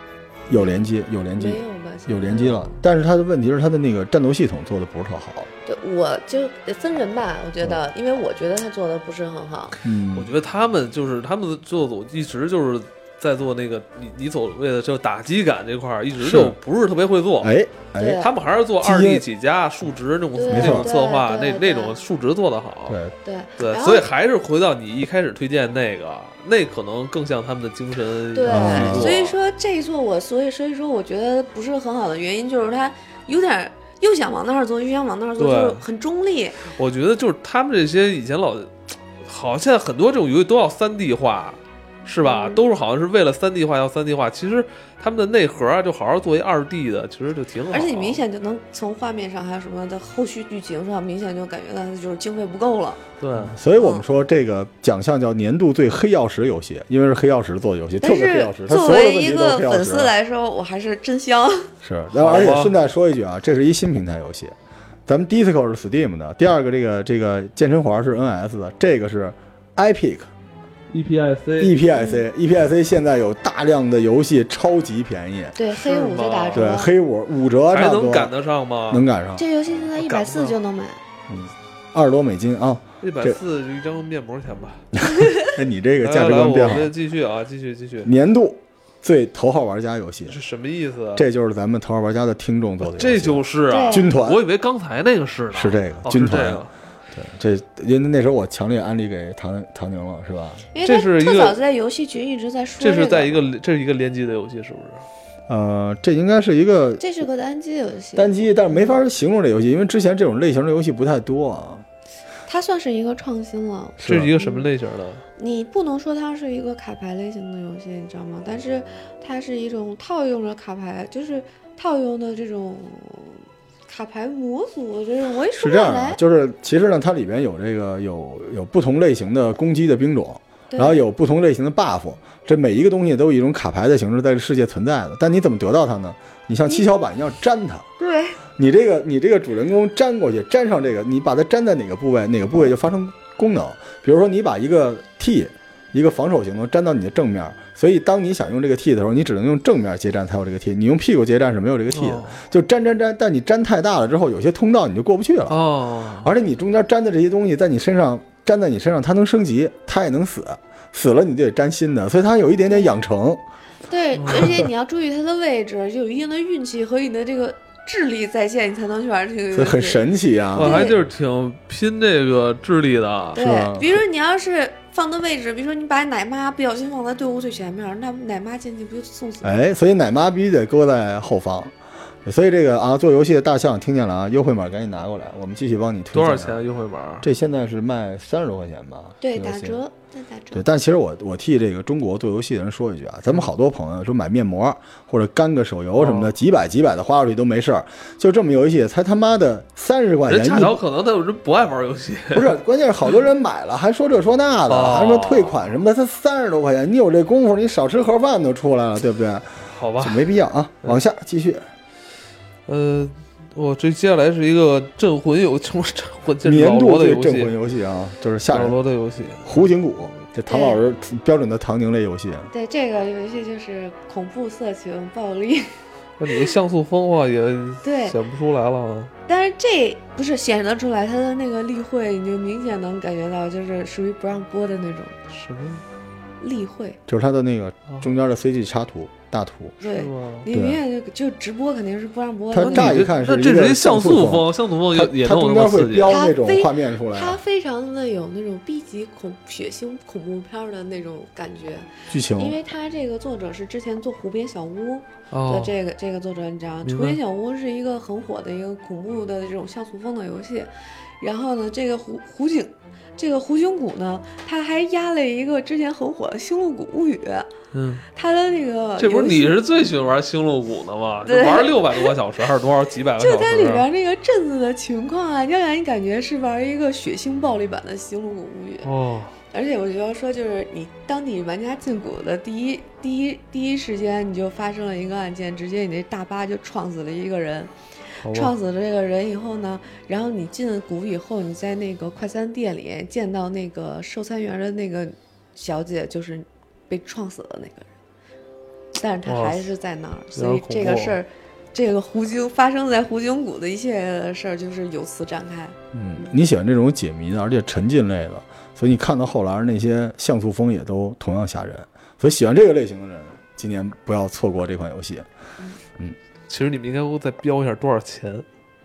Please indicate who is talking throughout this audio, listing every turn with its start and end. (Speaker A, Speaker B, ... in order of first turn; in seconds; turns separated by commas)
Speaker A: 0.5-5.5, Speaker B: 1.4-2.8, Speaker B: 5.7-9.8, Speaker C: 9.7-17.5, Speaker A: 9.8-10.3, Speaker A: 16.2-16.6, Speaker A: 17.4-18.2, Speaker B: 18.0-18.3, Speaker C: 18.1-23.0, Speaker A: 18.8-19.3, Speaker B: 20.3-22.0, Speaker A: 20.5-20.9, Speaker A: 22.9-23.1, Speaker B: 23.2-24.1, Speaker C: 23.6-29.4, Speaker B: 28.3-36.7, Speaker A: 28.5-29.1, Speaker C: 35.4-35.8, Speaker C: 36.6-48.2, Speaker B: 42.2-42.7, Speaker B: 47.7-53.0, Speaker C: 53.2-53.6, Speaker A: 53.4-60.1, Speaker B: 53.7-54.1, Speaker B: 58.0-61.7, Speaker A: 61.8-64.5, Speaker C: 62.1-62.8, Speaker A: 65.1-70.3, Speaker C: 70.9-71.8, Speaker A: 71.6-75.6, Speaker B: 71.9-72.2, Speaker B: 75.5-76.9, Speaker C: 75.7-76.7, Speaker A: 76.5-78.3, Speaker C: 77.7-79.0, Speaker A: 78.9-79.5, Speaker B: 79.4-81.0, Speaker C: 79.9-80.6, Speaker A: 81.3-83.4, Speaker C: 83.0-84.9, Speaker A: 84.9-86.9, Speaker C: 86.0-88.1, Speaker A: 88.0-90.4, Speaker C: 90.3-91.3, Speaker A: 91.2-94.4, Speaker C: 92.8-96.7, Speaker B: 93.7-94.1, Speaker A: 95.5-100.7, Speaker B: 100.7-103.5, Speaker C: 100.8-101.6, Speaker C: 102.8-105.0, Speaker A: 105.5-107.1, Speaker B: 107.0-109.0, Speaker A: 108.2-111.8, Speaker B: 112.5-114.7, Speaker C: 114.0-115.2, Speaker A: 114.0-114.3, Speaker B: 115.4-126.2, Speaker A: 125.5-137.8, Speaker B: 130.7-131.0, Speaker B: 138.0-138.4, Speaker A: 138.6-155.6, Speaker C: 151.9-152.4, Speaker C: 155.5-156.3, Speaker A: 156.2-163.4, Speaker B: 162.7-162.9, Speaker B: 163.9-171.0, Speaker C: 164.2-164.7, Speaker A: 169.5-170.9, Speaker C: 170.5-173.4, Speaker B: 173.3-179.7, Speaker A: 173.4-174.0, Speaker A: 179.4-181.7, Speaker A: 182.2-186.6, Speaker C: 186.1-187.3, Speaker A: 187.2-189.8, Speaker B: 189.2-190.7, Speaker A: 190.5-200.8, Speaker C: 196.0-196.4, Speaker C: 200.3-202.5, Speaker A: 202.3-211.7, Speaker C: 204.7-205.6, Speaker C: 209.7-210.2, Speaker C: 212.7-217.5, Speaker A: 216.4-218.8, Speaker C: 218.5-219.7, Speaker A: 219.4-222.5, Speaker B: 220.5-220.8, Speaker B: 222.5-225.7, Speaker C: 226.2-229.1, Speaker B: 227.8-228.2, Speaker B: 229.3-235.2, Speaker C: 235.3-235.8, Speaker B: 236.4-237.0, Speaker A: 237.1-239.8, Speaker B: 239.8-243.1, Speaker C: 239.9-240.5, Speaker A: 240.5-240.8, Speaker A: 242.5-247.4, Speaker C: 242.6-246.2, Speaker B: 246.0-267.5, Speaker A: 252.1-252.6, Speaker C: 255.3-255.8, Speaker C: 256.8-257.2, Speaker C: 267.7-268.0, Speaker B: 268.0-269.6, Speaker C: 269.0-273.9, Speaker B: 271.2-272.2, Speaker B: 273.1-278.9, Speaker C: 278.8-279.4, Speaker B: 279.5-297.9, Speaker C: 288.2-288.5, Speaker B: 298.9-306.3, Speaker C: 299.2-299.7, Speaker C: 300.4-301.2, Speaker A: 305.9-315.3, Speaker C: 316.5-318.5